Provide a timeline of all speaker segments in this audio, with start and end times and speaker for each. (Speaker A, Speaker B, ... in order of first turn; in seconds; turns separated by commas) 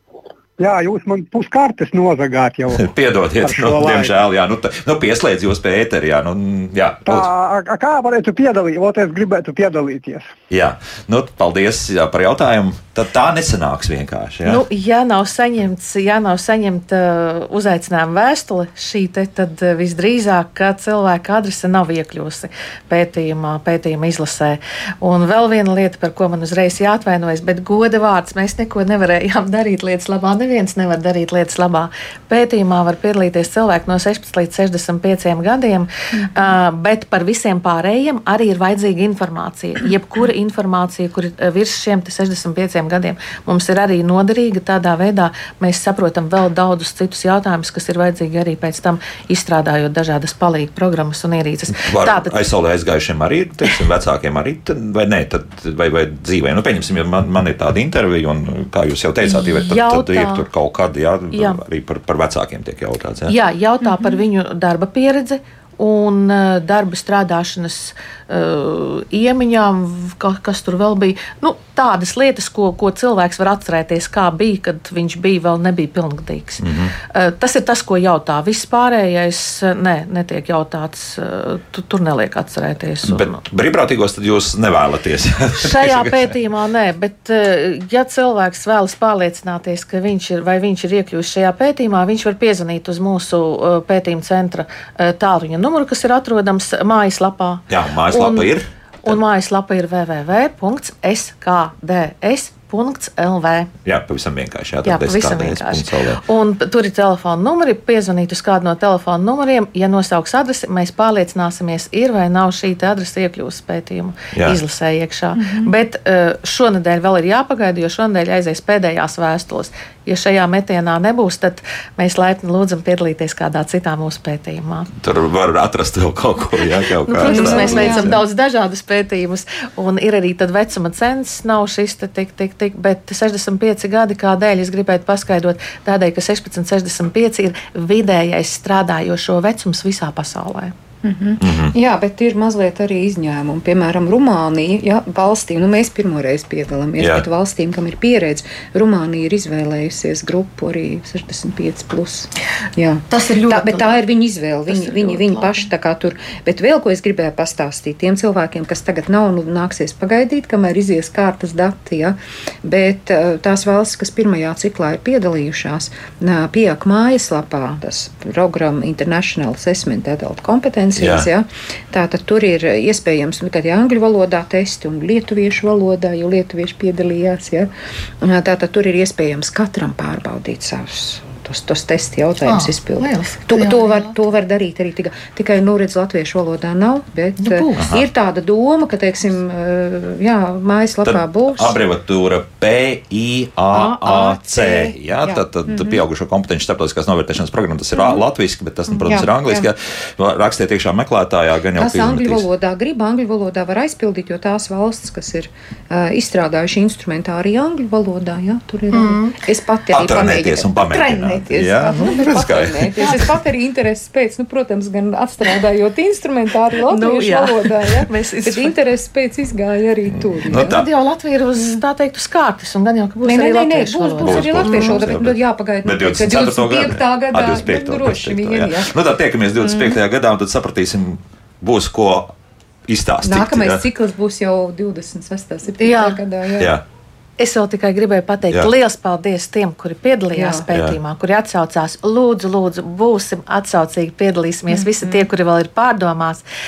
Speaker A: 0.6-2.9, Speaker B: 2.8-7.3, Speaker A: 3.4-4.1, Speaker A: 7.0-10.3, Speaker B: 10.5-14.6, Speaker C: 14.4-52.4, Speaker B: 51.8-63.3, Speaker C: 59.2-60.5, Speaker C: 61.3-61.6, Speaker C: 63.3-83.4, Speaker B: 76.6-76.9, Speaker B: 83.0-86.3, Speaker C: 85.6-98.5, Speaker B: 97.7-98.6, Speaker C: 99.0-103.7, Speaker B: 103.8-106.2, Speaker C: 104.8-124.9, Speaker B: 114.3-114.6, Speaker D: 115.3-115.7, Speaker B: 125.0-128.2, Speaker C: 127.0-140.7, Speaker D: 127.2-128.2, Speaker D: 141.0-177.7, Speaker B: 141.4-141.7, Speaker B: 147.0-147.2, Speaker C: 153.1-154.0, Speaker C: 154.7-155.6, Speaker B: 171.0-171.3, Speaker D: 178.2-191.8, Speaker C: 182.4-184.1, Speaker C: 187.4-187.9, Speaker B: 187.8-188.0, Speaker B: 191.1-202.4, Speaker D: 193.7-196.0, Speaker D: 197.9-198.2, Speaker D: 198.9-199.7, Speaker D: 201.7-220.8, Speaker C: 208.9-209.4, Speaker B: 209.9-212.9, Speaker C: 210.9-211.3, Speaker C: 213.0-213.3, Speaker C: 216.9-218.8, Speaker B: 220.1-220.9, Speaker C: 220.5-225.2, Speaker D: 221.6-221.8, Speaker D: 223.2-228.9, Speaker B: 224.2-232.3, Speaker D: 229.6-230.0, Speaker B: 232.9-233.8, Speaker D: 233.2-236.8, Speaker C: 235.8-236.2, Speaker B: 236.6-236.8, Speaker C: 237.4-246.4, Speaker D: 240.3-240.6, Speaker B: 240.7-241.0, Speaker D: 244.7-245.3